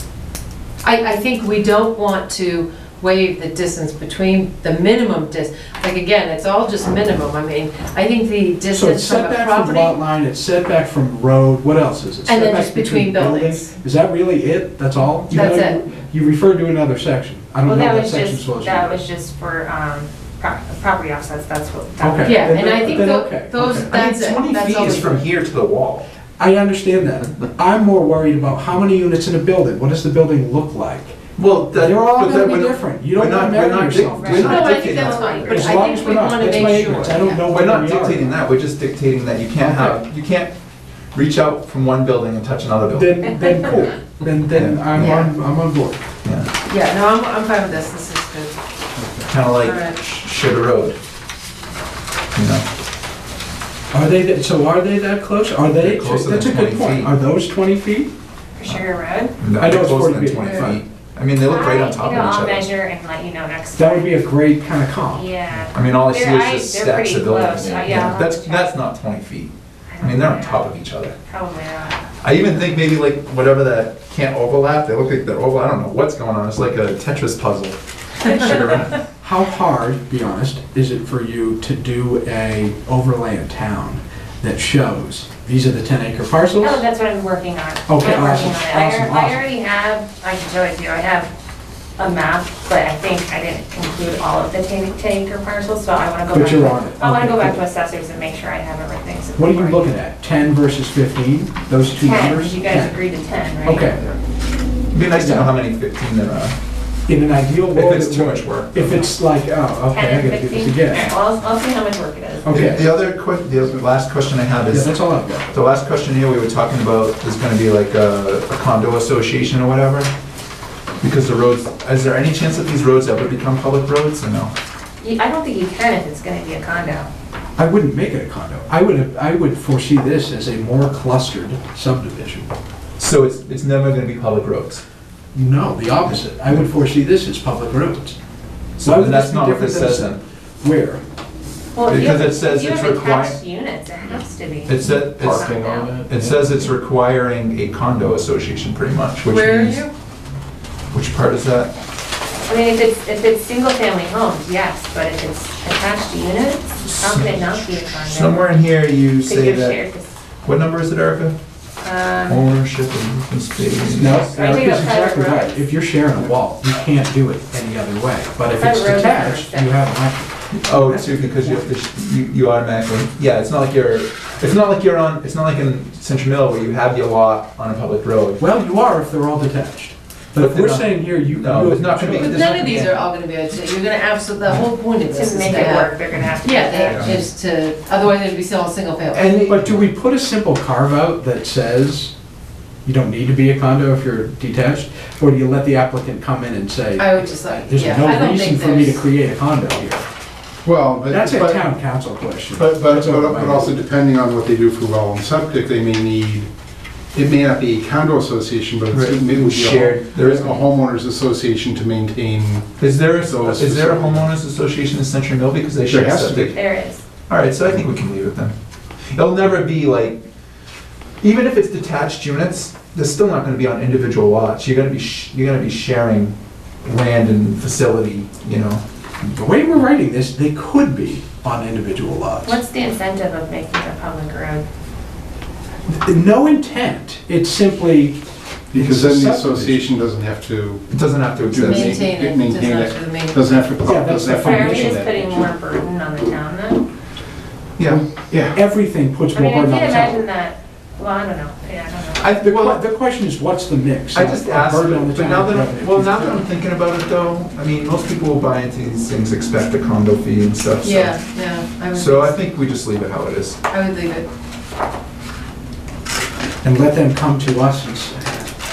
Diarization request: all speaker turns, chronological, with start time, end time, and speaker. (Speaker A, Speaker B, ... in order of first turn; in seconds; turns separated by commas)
Speaker A: 0.8-10.0, Speaker B: 8.7-19.0, Speaker A: 12.2-13.7, Speaker A: 15.3-15.8, Speaker C: 17.6-22.7, Speaker B: 22.0-23.9, Speaker A: 22.2-25.2, Speaker D: 23.6-26.1, Speaker B: 26.4-31.2, Speaker D: 31.4-35.8, Speaker B: 31.7-34.8, Speaker C: 34.1-36.7, Speaker A: 34.3-37.5, Speaker B: 35.4-38.3, Speaker D: 36.7-40.5, Speaker B: 39.6-40.0, Speaker D: 41.1-43.7, Speaker B: 42.9-46.0, Speaker D: 44.5-45.2, Speaker A: 45.0-45.3, Speaker D: 46.2-46.5, Speaker A: 46.6-48.5, Speaker E: 49.0-49.2, Speaker D: 49.3-51.0, Speaker A: 49.6-50.0, Speaker D: 52.3-52.6, Speaker B: 53.9-58.1, Speaker D: 55.8-57.1, Speaker C: 58.6-59.4, Speaker D: 59.4-62.7, Speaker B: 59.6-60.8, Speaker C: 61.4-64.2, Speaker B: 63.8-65.3, Speaker C: 65.1-68.8, Speaker D: 65.7-71.2, Speaker C: 69.9-70.7, Speaker C: 71.2-72.1, Speaker D: 72.2-79.0, Speaker B: 79.2-86.8, Speaker C: 86.6-91.3, Speaker B: 87.9-89.4, Speaker C: 92.0-99.9, Speaker B: 96.3-97.6, Speaker B: 99.4-103.0, Speaker C: 101.9-104.0, Speaker B: 103.6-104.0, Speaker D: 104.9-106.5, Speaker B: 105.1-105.5, Speaker B: 107.1-111.1, Speaker D: 107.7-109.0, Speaker C: 109.9-112.9, Speaker B: 112.4-112.9, Speaker D: 112.5-120.1, Speaker B: 114.7-115.5, Speaker D: 121.0-124.5, Speaker C: 125.0-127.1, Speaker B: 127.6-132.5, Speaker D: 133.0-134.8, Speaker B: 135.3-138.2, Speaker D: 138.8-140.2, Speaker B: 138.8-141.0, Speaker C: 141.7-146.0, Speaker D: 141.8-143.4, Speaker D: 144.7-149.8, Speaker E: 145.2-146.6, Speaker A: 149.3-149.9, Speaker D: 150.9-151.7, Speaker C: 152.5-158.4, Speaker D: 156.9-157.5, Speaker D: 158.0-159.8, Speaker C: 159.2-160.1, Speaker D: 160.4-161.3, Speaker C: 161.8-162.4, Speaker D: 162.3-164.8, Speaker B: 163.8-171.7, Speaker C: 164.3-165.7, Speaker C: 168.6-169.8, Speaker D: 170.5-178.4, Speaker B: 178.4-182.6, Speaker D: 180.3-183.1, Speaker A: 182.2-189.6, Speaker C: 185.1-187.2, Speaker E: 186.8-187.2, Speaker B: 189.1-192.1, Speaker B: 192.8-200.1, Speaker A: 197.0-199.0, Speaker E: 200.6-201.7, Speaker B: 201.1-203.7, Speaker E: 202.5-206.5, Speaker E: 207.1-214.3, Speaker D: 208.9-210.7, Speaker D: 212.8-216.6, Speaker E: 215.9-216.6, Speaker C: 216.5-217.0, Speaker D: 217.3-218.5, Speaker D: 219.1-220.2, Speaker D: 221.2-228.8, Speaker B: 229.2-232.6, Speaker C: 232.4-234.6, Speaker B: 235.9-238.2, Speaker E: 238.7-240.9, Speaker B: 238.7-239.8, Speaker D: 240.9-242.1, Speaker E: 241.5-245.5, Speaker A: 241.6-243.5, Speaker B: 243.8-245.0, Speaker C: 244.3-246.8, Speaker B: 247.8-250.2, Speaker E: 248.3-248.6, Speaker C: 249.3-252.2, Speaker D: 252.2-252.8, Speaker B: 252.3-256.4, Speaker D: 254.1-261.2, Speaker A: 260.8-262.4, Speaker D: 261.9-263.6, Speaker A: 263.7-264.2, Speaker B: 266.6-268.5